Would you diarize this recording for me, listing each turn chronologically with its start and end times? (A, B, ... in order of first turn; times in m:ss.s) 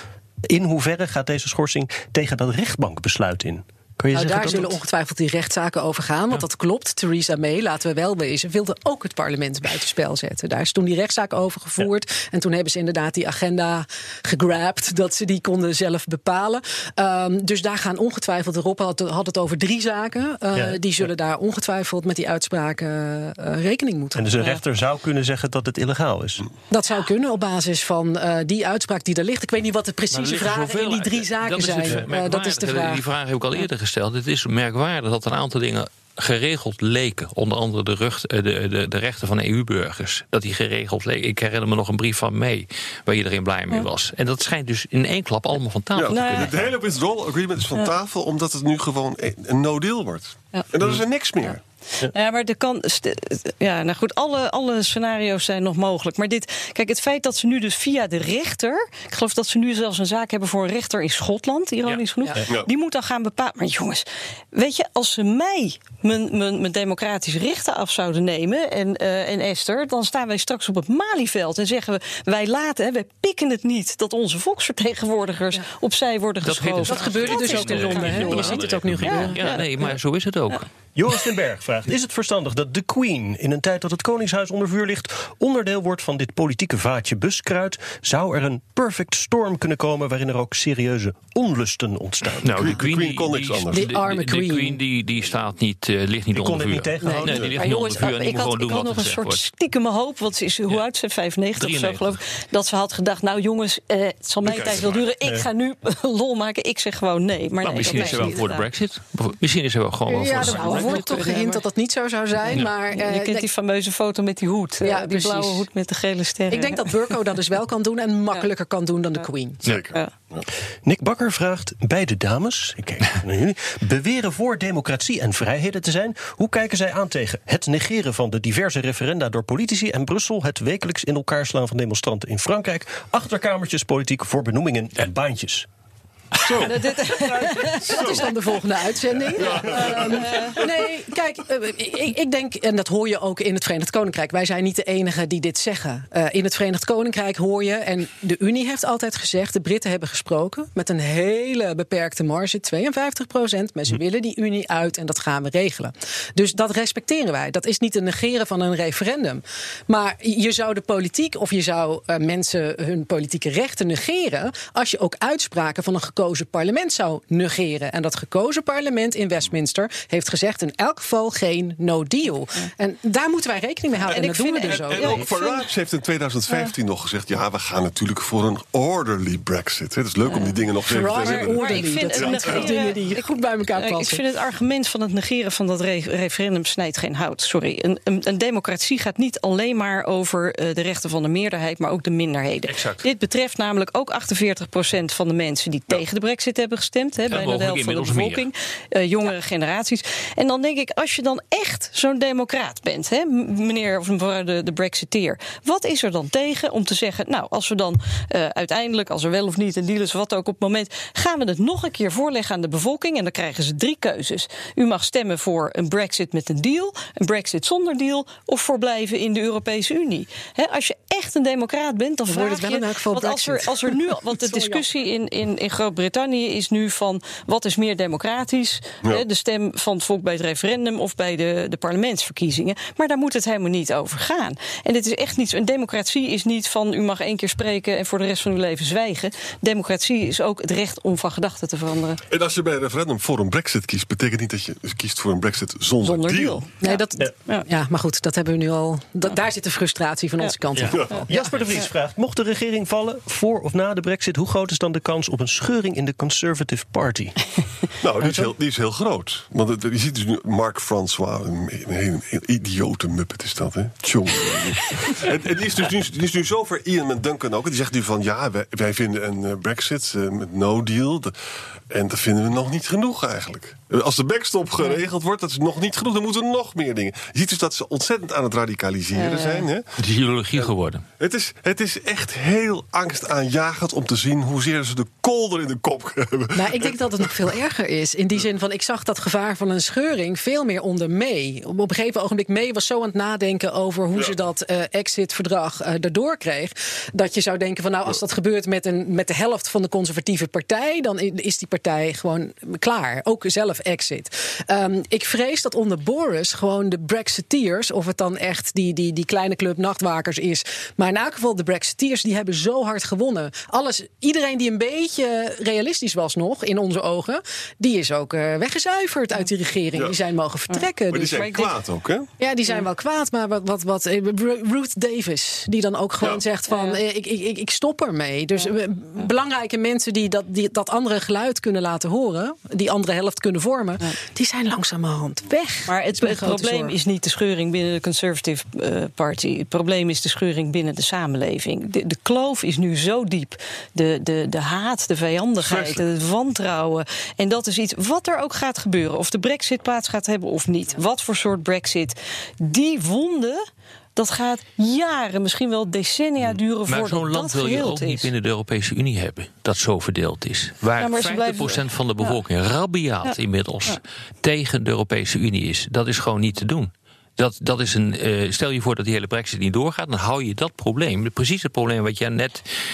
0:00.5-0:04.8 A
0:04.1-0:24.4 B
0:20.5-0:20.8 A
0:24.1-0:26.5 A
0:26.7-0:33.0 B
0:30.1-0:46.7 C
0:45.9-0:51.6 D
0:46.1-0:46.5 E
0:52.1-1:19.7 E
1:16.4-1:20.6 C
1:16.8-1:19.7 B
1:21.0-1:32.6 A
1:32.4-1:39.4 C
1:32.5-1:34.0 D
1:33.7-1:34.8 B
1:36.3-1:37.5 A
1:37.0-1:48.6 E
1:37.1-1:37.7 B
1:41.6-1:42.1 C
1:44.5-1:45.0 C
1:44.5-1:45.0 D
1:47.6-1:51.1 C
1:47.8-1:48.5 B
1:50.1-1:53.4 B
1:50.3-1:51.6 E
1:52.5-1:56.9 E
1:54.8-1:55.7 B
1:56.5-1:59.6 B
1:59.6-2:00.4 D
2:00.8-2:15.7 A
2:16.4-2:16.9 D
2:16.6-2:18.2 E
2:17.2-2:55.2 B
2:17.6-2:18.3 D
2:19.2-2:20.8 D
2:19.7-2:20.6 E
2:54.1-2:55.7 E
2:54.6-3:02.8 D
3:00.8-3:04.2 B
3:01.1-4:02.2 E
3:12.7-3:13.0 C
3:17.3-3:18.5 C
3:42.3-3:44.8 B
4:02.3-4:06.6 D
4:06.0-4:07.7 E
4:06.8-4:11.5 B
4:10.8-4:11.5 C
4:10.8-4:11.3 D
4:11.2-4:17.4 A
4:18.0-4:31.3 D
4:31.9-4:39.8 D
4:39.1-4:39.6 E
4:40.0-4:41.0 C
4:40.6-4:47.5 D
4:46.5-5:21.6 B
5:20.7-5:21.7 E
5:21.1-5:22.3 D
5:22.4-5:37.0 B
5:26.7-5:27.0 E
5:35.9-5:53.6 E
5:45.6-5:46.0 D
5:54.2-5:58.3 E
5:56.8-6:12.7 C
6:01.0-6:02.4 E
6:03.2-6:04.0 E